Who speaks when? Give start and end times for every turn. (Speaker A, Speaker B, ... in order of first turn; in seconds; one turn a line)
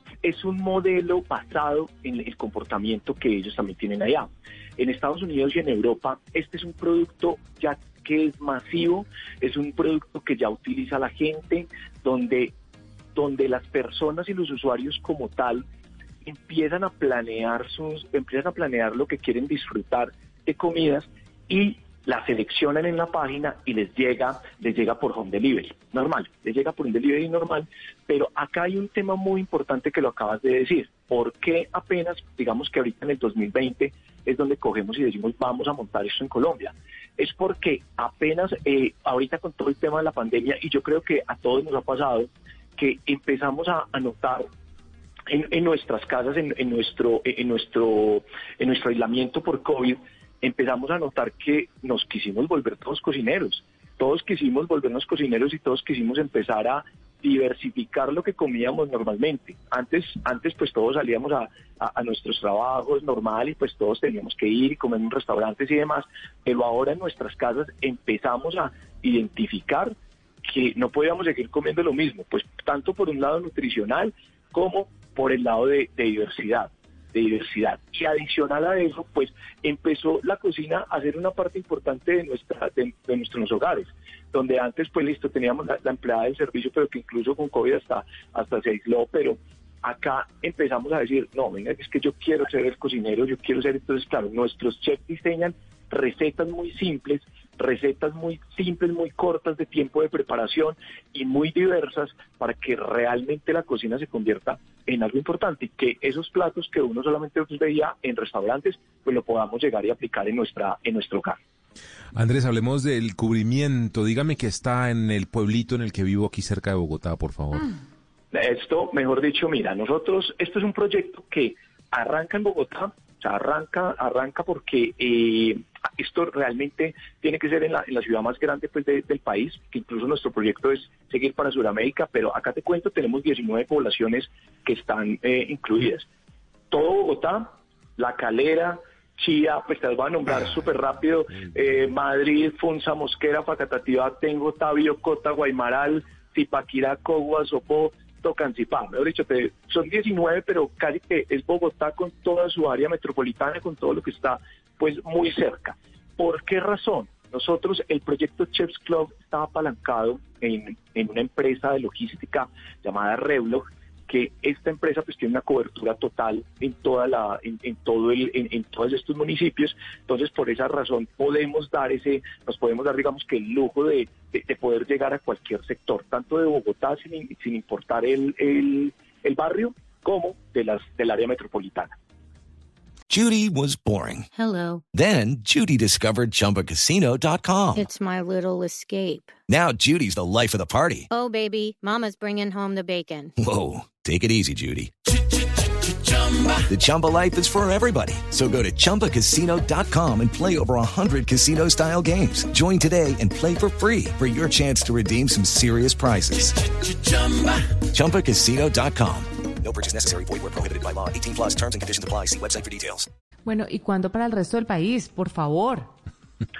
Speaker A: 0.2-12.5
Speaker A: 13.2-15.7
Speaker A: 16.2-44.5
Speaker A: 45.3-111.4
Speaker B: 112.1-117.7
Speaker A: 118.3-136.1
Speaker A: 136.7-181.9
Speaker C: 183.1-184.3
Speaker D: 184.3-184.8
Speaker C: 184.9-187.8
Speaker D: 187.8-189.3
Speaker C: 189.5-191.1
Speaker D: 191.1-193.3
Speaker C: 193.4-194.9
Speaker C: 196.6-213.1
Speaker E: 213.4-215.9